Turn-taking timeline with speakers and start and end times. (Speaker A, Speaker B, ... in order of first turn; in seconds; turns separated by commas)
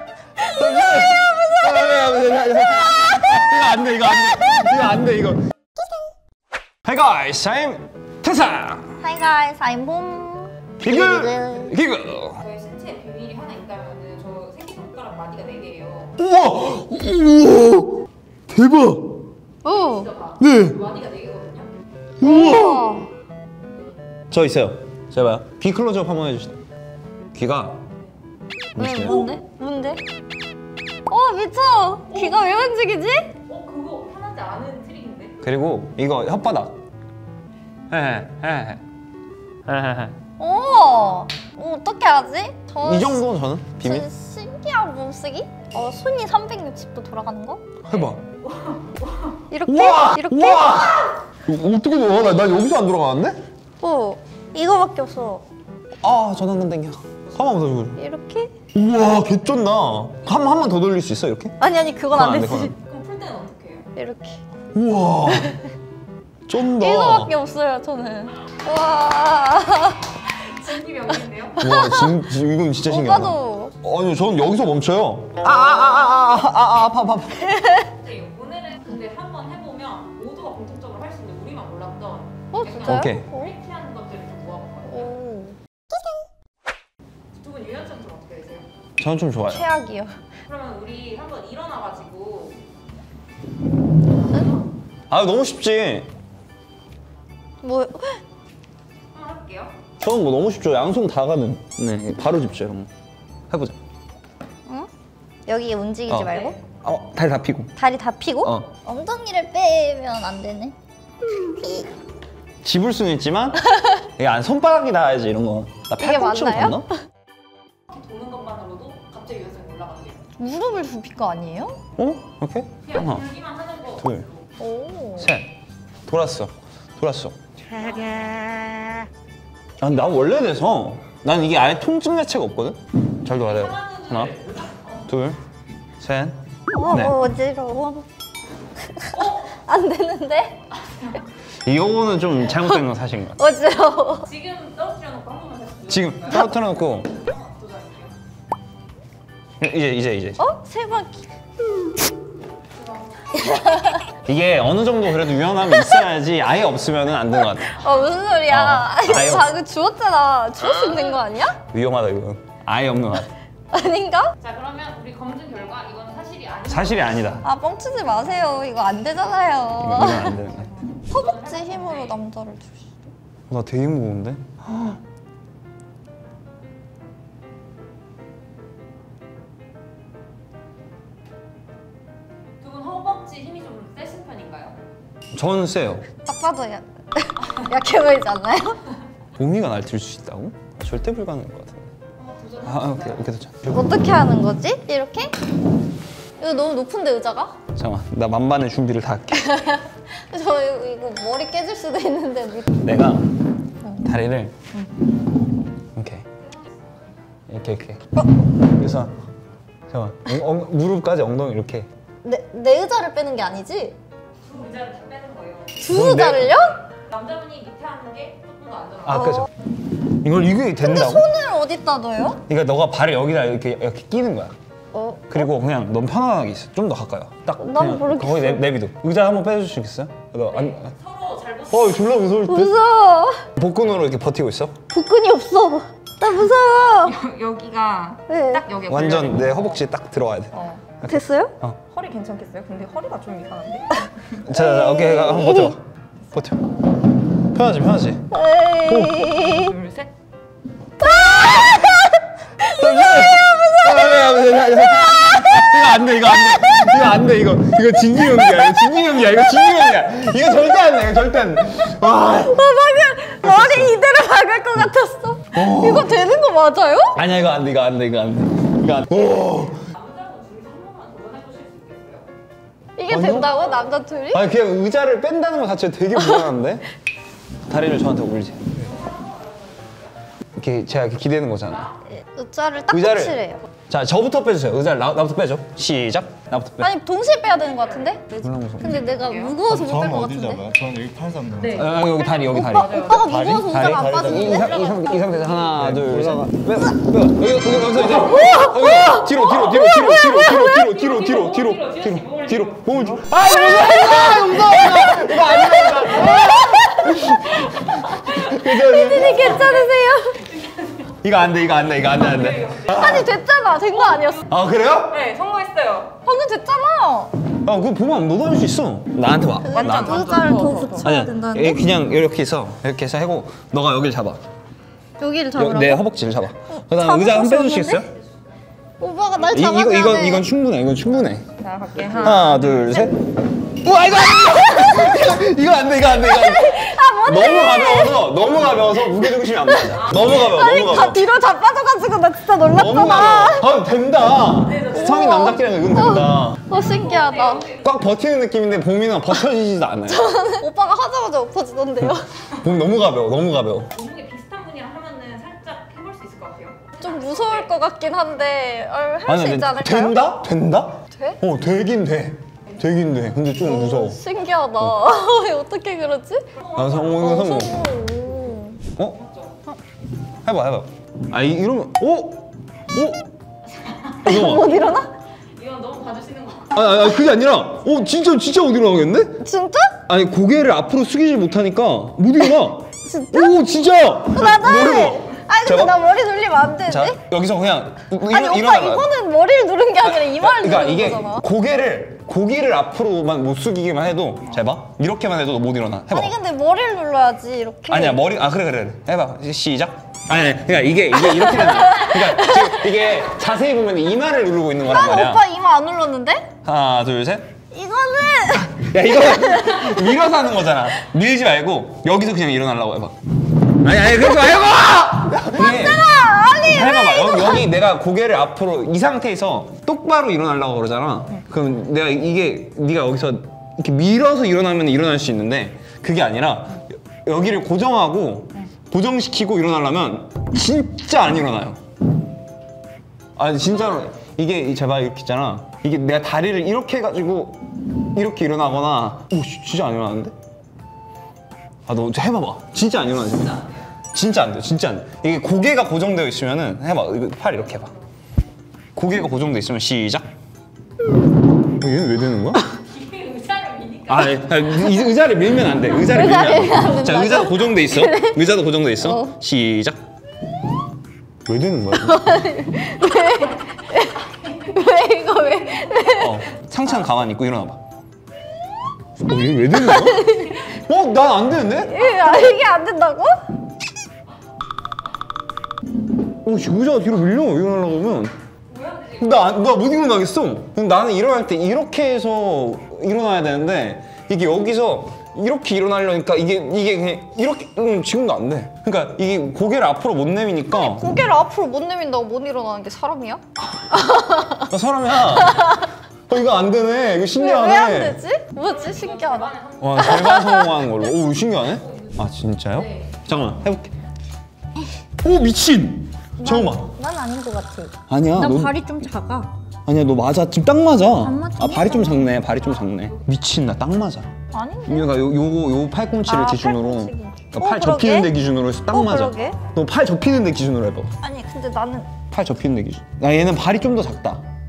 Speaker A: 0.4-5.4, Speaker B: 0.9-1.6, Speaker A: 6.8-9.0, Speaker B: 9.0-11.7, Speaker A: 10.8-12.4, Speaker C: 12.3-16.2, Speaker A: 16.2-19.2, Speaker B: 19.6-20.1, Speaker C: 19.7-21.7, Speaker A: 20.4-20.8, Speaker A: 22.2-23.0, Speaker B: 22.2-23.1, Speaker A: 24.3-26.6, Speaker A: 27.3-27.8, Speaker A: 28.7-29.3, Speaker B: 28.8-30.0, Speaker B: 31.1-33.3, Speaker C: 33.5-35.4, Speaker A: 35.4-36.8, Speaker A: 37.9-38.8, Speaker A: 39.6-40.2, Speaker B: 40.4-43.3, Speaker A: 42.8-44.1, Speaker B: 43.8-47.6, Speaker A: 47.8-48.2, Speaker C: 47.9-49.4, Speaker B: 49.5-51.1, Speaker A: 49.6-53.4, Speaker B: 53.8-55.4, Speaker A: 56.0-58.0, Speaker B: 58.0-58.5, Speaker A: 58.7-61.5, Speaker B: 61.6-62.7, Speaker A: 62.1-62.7, Speaker C: 62.7-63.9, Speaker B: 63.9-64.4, Speaker A: 64.7-65.6, Speaker A: 66.5-67.3, Speaker B: 66.8-70.2, Speaker C: 70.2-71.7, Speaker A: 71.6-77.6, Speaker B: 71.6-72.1, Speaker B: 72.8-73.7, Speaker B: 77.5-77.9, Speaker C: 77.9-85.1, Speaker B: 82.5-83.5, Speaker A: 82.8-83.3, Speaker B: 84.8-85.5, Speaker C: 87.3-88.7, Speaker A: 89.0-89.6, Speaker B: 89.5-90.2, Speaker C: 90.4-92.6, Speaker C: 94.2-94.6, Speaker A: 95.1-96.1, Speaker B: 97.6-98.2, Speaker C: 99.1-99.7, Speaker A: 100.0-102.9, Speaker A: 103.5-103.7, Speaker B: 105.5-106.6, Speaker A: 106.8-107.7, Speaker B: 107.8-110.7, Speaker B: 111.4-111.8, Speaker A: 112.6-116.8, Speaker B: 115.9-116.9, Speaker C: 117.9-120.2, Speaker B: 120.4-121.8, Speaker A: 122.0-123.2, Speaker C: 122.8-124.5, Speaker A: 124.0-124.3, Speaker B: 124.6-125.3, Speaker A: 125.2-125.5, Speaker A: 126.1-127.9, Speaker A: 129.8-134.3, Speaker C: 133.4-135.0, Speaker A: 135.1-135.4, Speaker A: 136.0-136.4, Speaker B: 136.7-138.0, Speaker A: 136.9-137.2, Speaker B: 138.9-140.6, Speaker C: 139.1-139.5, Speaker C: 140.9-141.2, Speaker A: 141.6-143.4, Speaker B: 143.4-144.3, Speaker C: 144.2-148.2, Speaker A: 145.9-147.1, Speaker A: 149.6-150.4, Speaker B: 150.4-151.3, Speaker C: 152.9-153.3, Speaker B: 153.3-154.0, Speaker A: 154.2-157.8, Speaker B: 155.7-156.0, Speaker B: 157.6-161.6, Speaker A: 158.5-159.5, Speaker A: 161.6-163.3, Speaker B: 163.7-164.3, Speaker C: 164.4-167.4, Speaker A: 166.7-167.4, Speaker B: 167.4-170.4, Speaker A: 169.8-170.7, Speaker C: 170.5-172.2, Speaker B: 171.1-173.1, Speaker A: 173.5-175.0, Speaker C: 182.6-184.8, Speaker A: 185.3-186.1, Speaker B: 186.2-188.8, Speaker A: 189.4-191.9, Speaker C: 192.2-193.3, Speaker A: 192.6-193.9, Speaker B: 193.7-195.3, Speaker B: 196.4-197.6, Speaker A: 197.7-199.5, Speaker B: 199.3-202.8, Speaker A: 202.8-203.3, Speaker A: 204.0-204.5, Speaker A: 205.9-206.2, Speaker A: 207.5-208.0, Speaker A: 208.6-209.1, Speaker A: 209.9-211.9, Speaker B: 212.2-213.9, Speaker C: 214.4-215.8, Speaker B: 215.8-216.8, Speaker A: 215.8-216.6, Speaker C: 216.9-219.3, Speaker A: 219.0-219.5, Speaker B: 219.1-219.5, Speaker A: 220.2-221.3, Speaker B: 220.8-222.4, Speaker A: 222.5-224.5, Speaker B: 224.9-225.5, Speaker A: 225.3-230.9, Speaker B: 227.6-228.6, Speaker C: 230.5-232.2, Speaker A: 231.7-232.8, Speaker B: 232.5-233.4, Speaker A: 233.6-234.8, Speaker B: 234.9-237.2, Speaker C: 236.9-239.8, Speaker B: 238.3-238.6, Speaker A: 238.9-241.8, Speaker B: 241.0-241.5, Speaker C: 241.9-244.1, Speaker A: 244.4-245.8, Speaker B: 244.5-245.7, Speaker A: 246.3-246.7, Speaker A: 247.5-248.2, Speaker B: 248.3-249.7, Speaker A: 248.9-249.2, Speaker C: 249.5-250.1, Speaker B: 251.0-255.7, Speaker A: 252.7-262.7, Speaker B: 262.3-267.2, Speaker A: 263.4-264.0, Speaker A: 265.5-266.2, Speaker A: 267.1-269.9, Speaker C: 269.9-272.3, Speaker B: 273.0-274.4, Speaker A: 273.1-273.6, Speaker A: 274.3-276.8, Speaker A: 277.7-278.9, Speaker C: 278.8-280.1, Speaker A: 280.6-281.9, Speaker C: 281.7-282.0, Speaker B: 282.1-283.6, Speaker A: 282.9-286.9, Speaker B: 286.8-290.7, Speaker C: 287.5-289.6, Speaker A: 288.4-288.9, Speaker D: 289.7-291.8, Speaker C: 291.6-293.3, Speaker A: 291.8-309.8, Speaker B: 292.3-294.9, Speaker C: 294.3-295.8, Speaker D: 295.8-296.6, Speaker B: 298.2-300.8, Speaker C: 300.7-303.0, Speaker B: 303.4-307.3, Speaker C: 307.5-308.3, Speaker B: 308.4-310.4, Speaker C: 310.5-311.1, Speaker A: 311.2-313.3, Speaker C: 311.9-313.1, Speaker B: 312.8-314.4, Speaker C: 314.1-314.4, Speaker A: 314.5-315.2, Speaker C: 315.1-316.1, Speaker B: 316.2-317.3, Speaker A: 317.6-324.4, Speaker B: 319.6-321.8, Speaker C: 319.8-321.1, Speaker B: 325.2-326.0, Speaker A: 325.6-328.1, Speaker B: 326.7-328.1, Speaker B: 329.0-330.5, Speaker A: 329.4-331.5, Speaker C: 331.6-333.1, Speaker A: 332.2-333.2, Speaker A: 333.8-341.2, Speaker B: 334.6-335.3, Speaker B: 336.2-338.3, Speaker B: 339.4-343.7, Speaker C: 339.9-340.3, Speaker A: 342.7-346.6, Speaker C: 344.6-345.3, Speaker B: 344.9-347.7, Speaker C: 346.7-348.0, Speaker A: 347.8-350.4, Speaker B: 350.1-352.3, Speaker A: 352.0-353.9, Speaker C: 353.9-357.7, Speaker B: 357.0-360.2, Speaker A: 359.3-364.2, Speaker B: 361.1-361.4, Speaker B: 363.6-366.5, Speaker C: 366.5-367.3, Speaker A: 366.8-367.9, Speaker B: 367.2-368.8, Speaker C: 369.0-369.6, Speaker A: 370.4-373.2, Speaker C: 373.8-374.2, Speaker A: 374.2-374.7, Speaker B: 374.2-375.1, Speaker C: 375.5-376.8, Speaker A: 376.7-379.4, Speaker B: 379.4-380.0, Speaker A: 380.1-386.0, Speaker B: 383.1-383.6, Speaker B: 384.3-387.2, Speaker A: 386.9-389.1, Speaker B: 388.3-391.4, Speaker A: 390.1-396.3, Speaker B: 396.1-398.2, Speaker A: 397.9-405.4, Speaker B: 401.3-402.8, Speaker B: 404.8-406.5, Speaker A: 406.6-407.5, Speaker B: 407.7-410.0, Speaker A: 408.7-413.2, Speaker A: 413.7-431.8, Speaker B: 415.5-417.7, Speaker A: 433.4-437.6, Speaker A: 438.1-440.3, Speaker A: 441.9-447.9, Speaker A: 448.9-450.2, Speaker A: 451.7-452.6, Speaker C: 452.8-454.8, Speaker A: 454.1-460.0, Speaker B: 455.9-458.5, Speaker B: 459.0-459.4, Speaker A: 461.4-462.2, Speaker B: 461.9-466.4, Speaker A: 466.2-467.8, Speaker A: 469.2-471.9, Speaker B: 469.7-470.6, Speaker B: 471.8-473.3, Speaker A: 476.4-478.3, Speaker C: 478.7-479.6, Speaker A: 479.2-491.1, Speaker B: 490.7-493.4, Speaker B: 493.9-494.6, Speaker A: 494.6-495.8, Speaker A: 496.3-498.2, Speaker B: 497.3-500.9, Speaker C: 498.6-500.5, Speaker A: 499.8-503.9, Speaker C: 501.6-503.2, Speaker A: 505.2-506.9, Speaker B: 506.4-509.5, Speaker A: 508.1-508.8, Speaker A: 509.9-514.3, Speaker B: 511.2-512.4, Speaker C: 512.6-513.2, Speaker B: 514.5-515.1, Speaker A: 514.9-521.1, Speaker B: 516.2-518.3, Speaker B: 518.9-519.6, Speaker C: 519.3-519.8, Speaker B: 521.2-522.1, Speaker A: 522.3-524.4